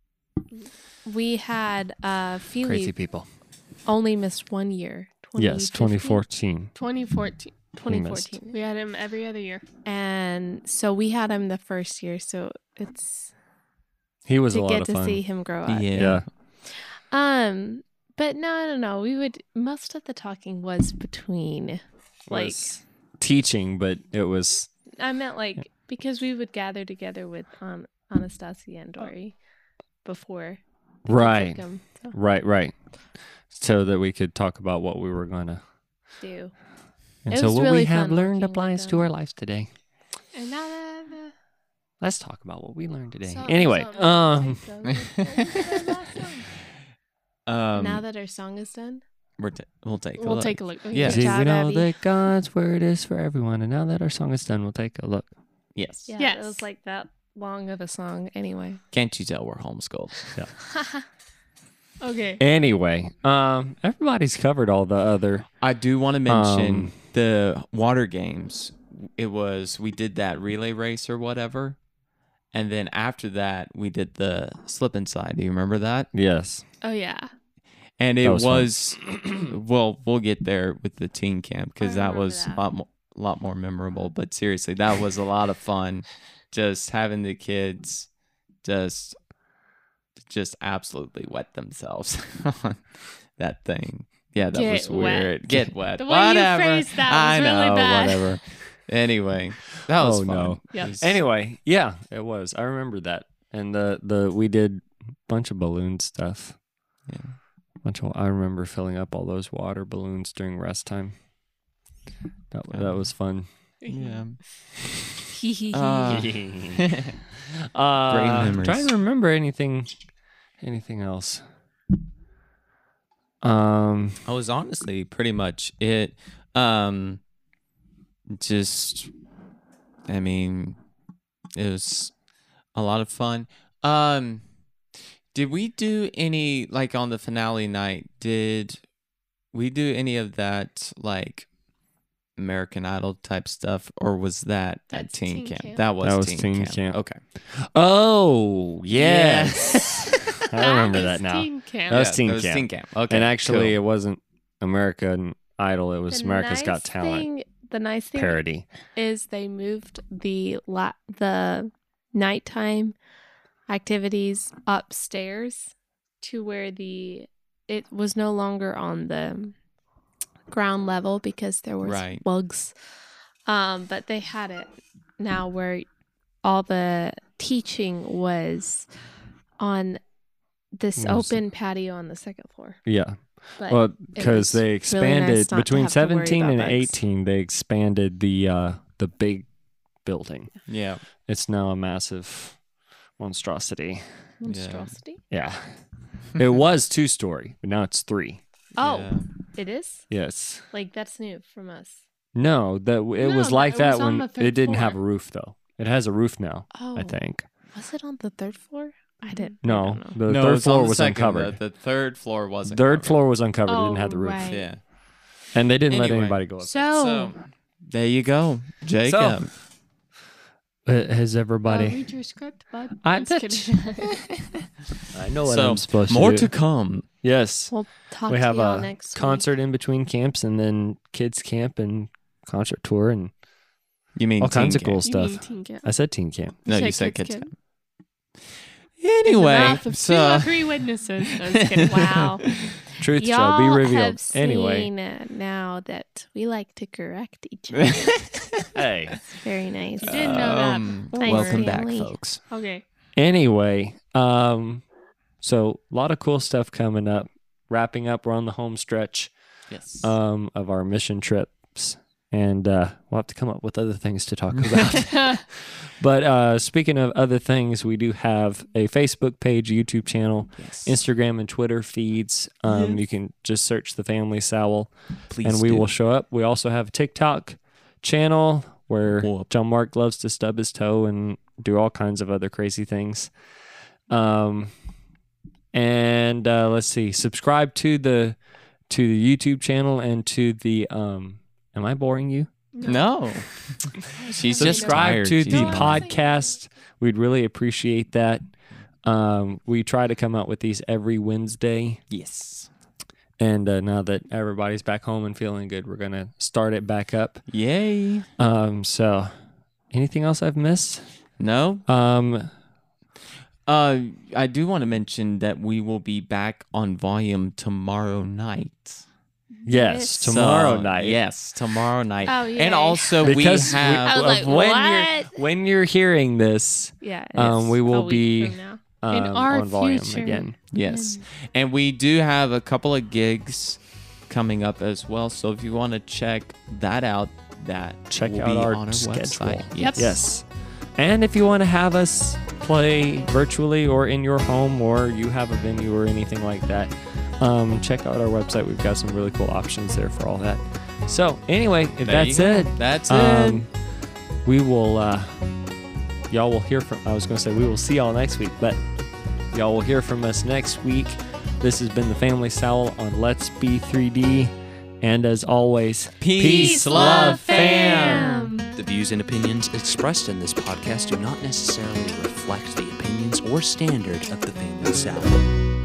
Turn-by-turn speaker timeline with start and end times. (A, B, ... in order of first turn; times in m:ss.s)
0:01.0-0:02.9 A
0:02.6-0:03.3 B
0:03.9-0:06.2 A
0:05.4-0:06.7 B
0:06.8-0:07.6 C
0:07.8-0:08.6 A
0:07.8-0:08.3 B
0:08.5-0:09.6 C
0:09.8-0:13.3 A
0:14.3-0:15.2 B
0:14.5-0:22.7 A
0:15.7-0:16.2 D
0:16.0-0:16.2 B
0:22.3-0:24.7 B
0:25.0-0:29.4 A
0:30.0-0:32.2 A
0:31.1-0:32.8 B
0:33.5-0:35.6 B
0:36.2-0:36.5 A
0:37.3-0:39.7 B
0:37.3-0:39.1 A
0:40.3-0:41.3 C
0:42.0-0:44.6 B
0:43.2-0:46.4 C
0:43.5-0:46.3 A
0:44.8-0:45.6 D
0:47.5-0:48.0 D
0:47.7-0:49.0 A
0:49.4-0:51.3 D
0:50.2-0:51.3 C
0:51.0-0:51.9 A
0:51.0-0:55.3 B
0:55.8-0:56.1 D
0:56.1-0:58.8 A
0:56.2-0:56.6 C
0:58.9-1:00.2 D
1:02.0-1:02.4 C
1:02.4-1:05.5 B
1:05.6-1:11.8 D
1:06.3-1:06.9 B
1:12.5-1:16.1 D
1:16.1-1:16.6 B
1:16.8-1:17.3 C
1:18.0-1:28.1 D
1:18.2-1:19.2 B
1:21.8-1:22.6 A
1:28.6-1:29.2 D
1:30.2-1:41.2 D
1:34.5-1:35.4 C
1:35.9-1:38.3 C
1:40.0-1:46.6 B
1:47.1-1:47.4 D
1:47.8-1:51.2 B
1:52.5-1:53.5 B
1:52.7-1:53.0 D
1:53.8-1:54.2 C
1:53.9-1:57.1 D
1:55.5-1:56.0 C
1:56.0-1:56.8 B
1:57.7-1:59.9 B
1:58.1-1:58.9 D
2:00.6-2:01.4 B
2:03.4-2:04.2 B
2:04.3-2:07.2 D
2:08.3-2:09.1 D
2:10.1-2:10.8 D
2:11.6-2:12.1 D
2:12.8-2:14.4 D
2:15.3-2:18.8 D
2:19.5-2:21.5 D
2:22.4-2:27.2 D
2:24.9-2:25.8 C
2:26.0-2:27.0 B
2:27.5-2:37.3 B
2:28.9-2:30.2 D
2:30.6-2:32.0 C
2:31.9-2:33.8 D
2:36.1-2:38.4 A
2:38.2-2:38.6 B
2:39.0-2:43.0 A
2:43.7-2:49.6 A
2:50.5-2:52.7 A
2:51.8-2:52.2 D
2:53.5-2:55.9 A
2:56.4-2:58.9 A
2:59.6-3:00.0 A
3:00.8-3:02.8 A
3:01.0-3:01.4 B
3:02.9-3:09.5 B
3:03.6-3:07.0 A
3:10.0-3:10.5 B
3:10.7-3:11.0 D
3:11.2-3:12.6 B
3:13.2-3:14.0 B
3:14.4-3:15.2 A
3:14.4-3:14.9 D
3:15.3-3:15.7 B
3:16.4-3:18.4 B
3:18.8-3:19.3 D
3:18.8-3:20.1 A
3:20.1-3:20.6 B
3:20.7-3:22.0 A
3:22.4-3:27.4 B
3:23.2-3:25.0 C
3:26.7-3:27.2 A
3:27.7-3:30.2 A
3:29.2-3:29.6 C
3:29.6-3:31.6 B
3:30.2-3:33.2 D
3:32.7-3:34.6 B
3:33.7-3:34.2 C
3:33.7-3:34.7 A
3:34.5-3:34.8 D
3:35.5-3:36.9 B
3:35.9-3:39.5 D
3:36.6-3:37.4 C
3:39.0-3:39.4 B
3:40.9-3:42.0 B
3:41.6-3:44.1 C
3:43.0-3:43.7 B
3:45.1-3:46.5 B
3:45.4-3:47.1 D
3:47.2-3:47.7 B
3:47.7-3:49.4 A
3:48.3-3:53.3 B
3:54.2-3:55.0 D
3:54.4-3:56.6 B
3:55.0-3:55.9 C
3:56.6-3:57.5 C
3:56.7-3:57.5 D
3:59.0-4:00.7 D
3:59.2-4:02.3 C
4:01.7-4:02.8 D
4:01.9-4:02.5 A
4:03.0-4:04.9 B
4:03.2-4:08.3 A
4:07.8-4:08.7 D
4:08.8-4:09.2 B
4:09.3-4:10.6 A
4:10.0-4:11.8 C
4:10.0-4:12.4 D
4:11.2-4:12.1 A
4:12.5-4:12.8 C
4:13.2-4:14.8 B
4:15.4-4:19.3 B
4:19.7-4:20.1 D
4:20.0-4:43.3 B
4:24.7-4:25.0 D
4:25.2-4:25.4 C
4:30.6-4:31.0 D
4:32.7-4:33.0 D
4:35.3-4:35.9 D
4:39.2-4:39.5 D
4:44.1-4:44.7 B
4:45.7-4:48.4 B
4:48.9-4:52.5 B
4:52.7-4:53.1 C
4:52.8-4:56.1 D
4:54.3-4:56.4 C
4:54.4-4:58.4 B
4:54.6-4:54.9 A
4:59.0-5:02.0 B
5:02.1-5:02.7 D
5:03.4-5:07.4 B
5:07.5-5:08.3 D
5:08.4-5:09.3 B
5:09.9-5:11.0 B
5:11.4-5:11.9 D
5:11.9-5:12.5 B
5:13.7-5:19.0 D
5:19.6-5:20.3 C
5:19.7-5:21.2 B
5:20.2-5:24.2 D
5:22.2-5:25.4 A
5:23.2-5:30.6 B
5:27.0-5:27.5 C
5:27.2-5:28.8 A
5:29.1-5:30.5 C
5:30.1-5:31.2 A
5:30.7-5:40.2 D
5:38.1-5:53.7 B
5:39.8-5:40.2 C
5:52.0-5:53.6 D
5:54.4-5:55.4 B
5:56.3-5:58.8 B
5:59.5-6:08.5 B
6:06.2-6:08.3 D
6:06.4-6:08.7 A
6:08.8-6:15.4 E